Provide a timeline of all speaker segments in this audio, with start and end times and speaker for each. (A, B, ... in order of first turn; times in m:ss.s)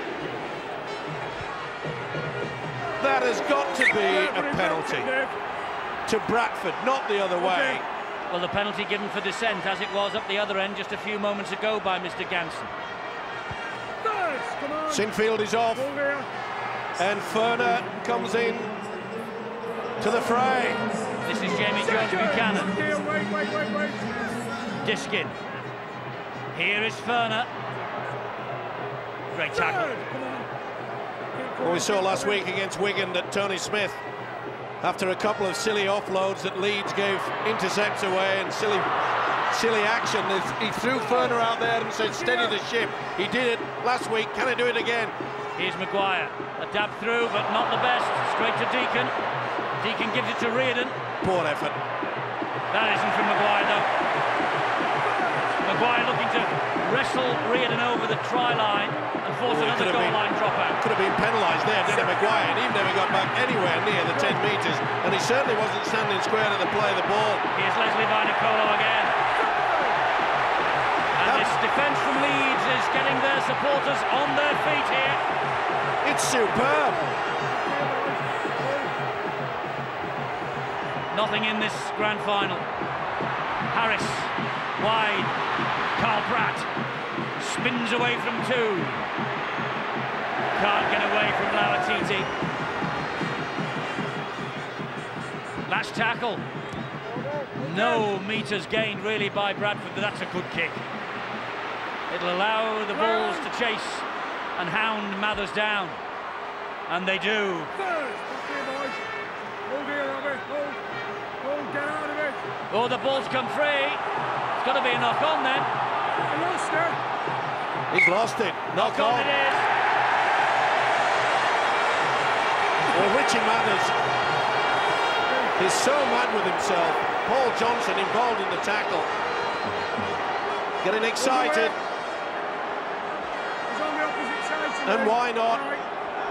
0:03.0-0:05.1 A
0:03.3-0:05.4 B
0:06.1-0:07.8 A
0:07.4-0:07.8 B
0:08.3-0:12.7 C
0:14.0-0:15.1 B
0:14.9-0:15.9 A
0:15.7-0:16.3 B
0:17.0-0:18.7 A
0:20.0-0:20.8 A
0:21.3-0:22.7 C
0:21.8-0:24.5 B
0:24.8-0:25.4 C
0:26.5-0:27.5 C
0:29.3-0:29.9 C
0:29.5-0:30.5 B
0:31.3-0:32.5 B
0:31.6-0:34.0 A
0:34.8-0:38.9 A
0:39.5-0:45.2 A
0:40.8-0:41.4 B
0:41.9-0:42.6 B
0:45.6-0:49.1 C
0:49.8-0:51.0 C
0:51.2-0:51.8 A
0:52.7-0:53.9 C
0:55.1-0:55.5 B
0:55.6-1:00.8 C
0:59.5-1:00.2 A
1:00.8-1:07.5 A
1:01.9-1:02.6 B
1:04.1-1:04.4 B
1:07.5-1:09.2 C
1:09.3-1:10.0 B
1:11.2-1:15.2 C
1:11.2-1:11.6 A
1:16.0-1:17.0 A
1:16.6-1:19.0 B
1:21.1-1:22.7 C
1:23.7-1:25.3 C
1:26.0-1:26.7 C
1:27.4-1:29.0 C
1:30.6-1:32.3 C
1:35.7-1:36.4 C
1:37.6-1:38.1 B
1:37.6-1:40.8 C
1:42.1-1:44.1 C
1:42.9-1:43.5 B
1:44.6-1:46.0 C
1:46.9-1:47.7 C
1:47.8-1:49.0 B
1:49.7-1:50.8 B
1:51.4-1:52.4 B
1:52.7-1:54.0 C
1:54.6-1:55.7 C
1:56.3-1:57.0 B
1:57.9-1:59.3 A
1:58.8-1:59.7 C
2:02.9-2:04.0 A
2:05.3-2:05.5 B
2:05.6-2:09.1 A
2:10.8-2:11.8 A
2:11.2-2:11.8 B
2:13.7-2:15.8 B
2:14.8-2:15.6 A